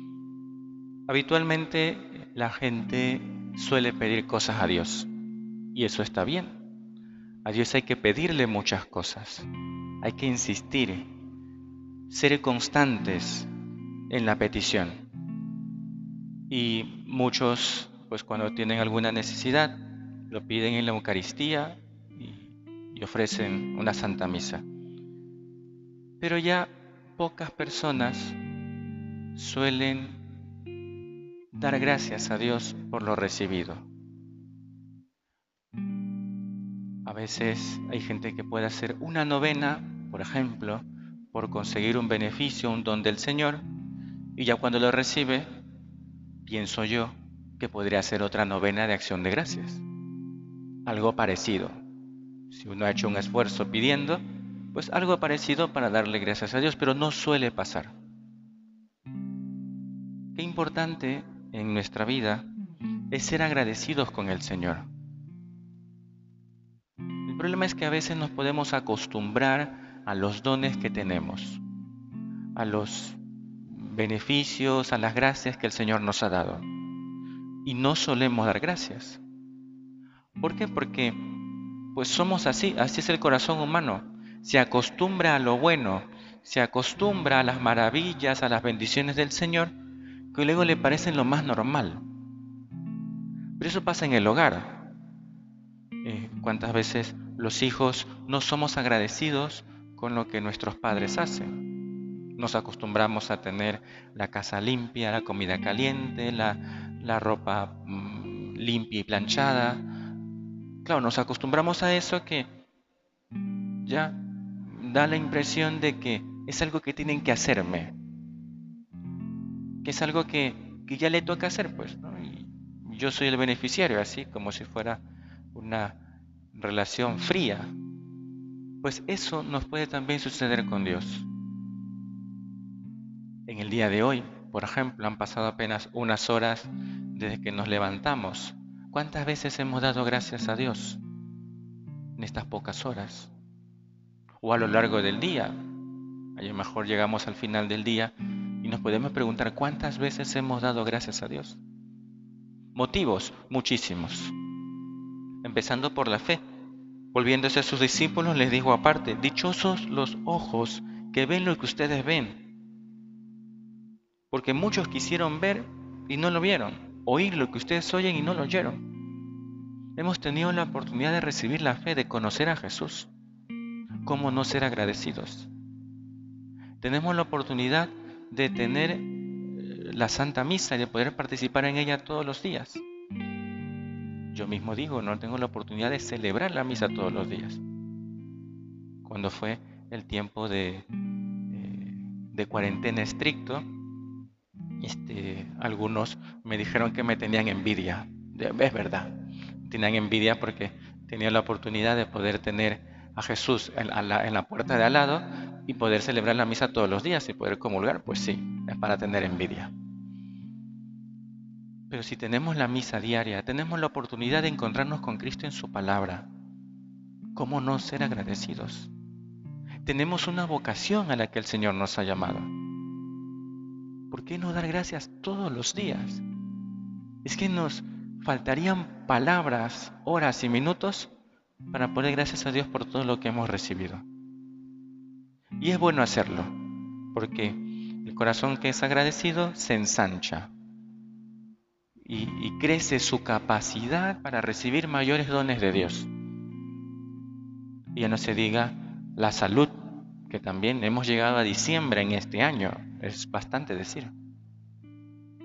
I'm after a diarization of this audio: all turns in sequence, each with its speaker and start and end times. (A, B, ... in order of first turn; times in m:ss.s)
0:01.1-0:05.1 A
0:05.7-0:06.5 A
0:07.4-0:09.5 A
0:10.0-0:11.1 A
0:12.1-0:13.5 A
0:14.1-0:15.0 A
0:16.5-0:24.6 A
0:26.2-0:28.4 A
0:29.3-0:30.2 A
0:31.5-0:33.9 A
0:37.0-0:43.6 A
0:44.4-0:45.5 A
0:46.4-0:49.8 A
0:50.8-0:51.8 A
0:52.5-0:57.9 A
1:00.3-1:02.5 A
1:03.1-1:04.9 A
1:07.2-1:11.6 A
1:12.5-1:16.6 A
1:17.6-1:19.2 A
1:20.4-1:21.2 A
1:21.9-1:29.7 A
1:30.3-1:32.0 A
1:33.6-1:34.9 A
1:36.0-1:41.6 A
1:42.4-1:49.9 A
1:50.8-1:52.5 A
1:53.8-1:57.9 A
1:59.8-2:05.0 A
2:05.5-2:06.0 A
2:06.5-2:07.7 A
2:08.8-2:11.3 A
2:13.5-2:21.0 A
2:22.2-2:23.3 A
2:24.4-2:25.6 A
2:26.4-2:31.6 A
2:32.7-2:34.3 A
2:35.4-2:36.4 A
2:37.1-2:42.4 A
2:44.3-2:48.8 A
2:50.0-2:53.1 A
2:54.0-2:55.5 A
2:56.8-3:02.8 A
3:04.3-3:07.6 A
3:09.0-3:10.8 A
3:11.5-3:13.6 A
3:14.8-3:29.7 A
3:31.9-3:36.3 A
3:37.3-3:38.9 A
3:39.8-3:42.5 A
3:44.1-3:46.2 A
3:47.2-3:51.1 A
3:51.7-3:54.0 A
3:55.6-3:56.5 A
3:57.1-4:00.5 A
4:02.0-4:06.1 A
4:07.9-4:14.1 A